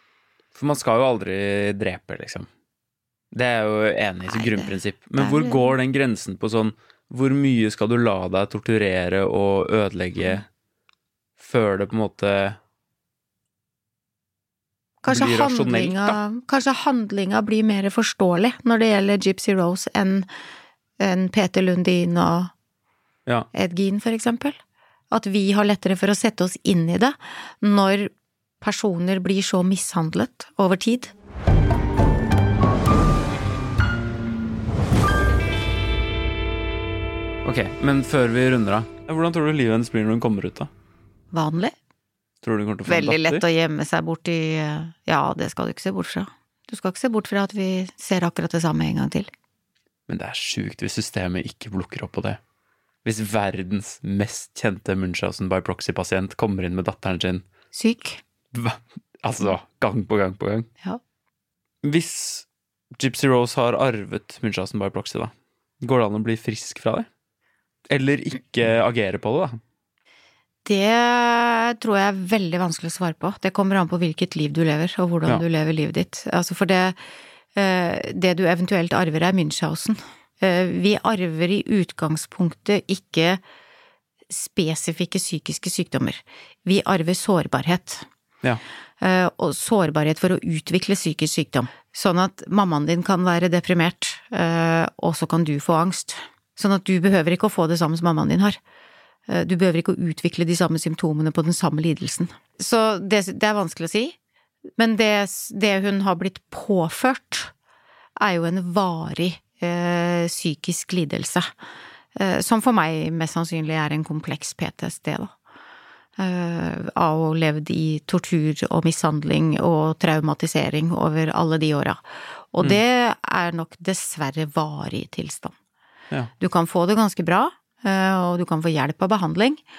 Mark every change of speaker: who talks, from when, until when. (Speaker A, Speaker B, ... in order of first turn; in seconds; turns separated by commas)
Speaker A: 0.5-2.5, Speaker A: 3.3-10.5, Speaker B: 4.3-5.7, Speaker A: 11.4-12.6, Speaker B: 15.0-20.3, Speaker A: 15.1-16.2, Speaker B: 21.0-22.5, Speaker B: 23.5-24.6, Speaker B: 25.1-31.1, Speaker A: 37.4-40.7, Speaker B: 41.3-41.7, Speaker A: 42.4-43.4, Speaker B: 42.9-49.3, Speaker A: 50.1-52.4, Speaker A: 53.0-57.5, Speaker B: 57.7-58.2, Speaker A: 58.5-60.7, Speaker A: 61.8-67.1, Speaker A: 67.9-69.6, Speaker B: 70.7-77.0, Speaker B: 77.5-83.4, Speaker B: 84.3-88.1, Speaker B: 89.0-98.6, Speaker B: 99.3-104.2, Speaker B: 104.8-107.5, Speaker B: 108.2-111.5, Speaker B: 112.2-115.3, Speaker B: 116.2-122.0, Speaker B: 122.5-125.5, Speaker B: 126.4-129.6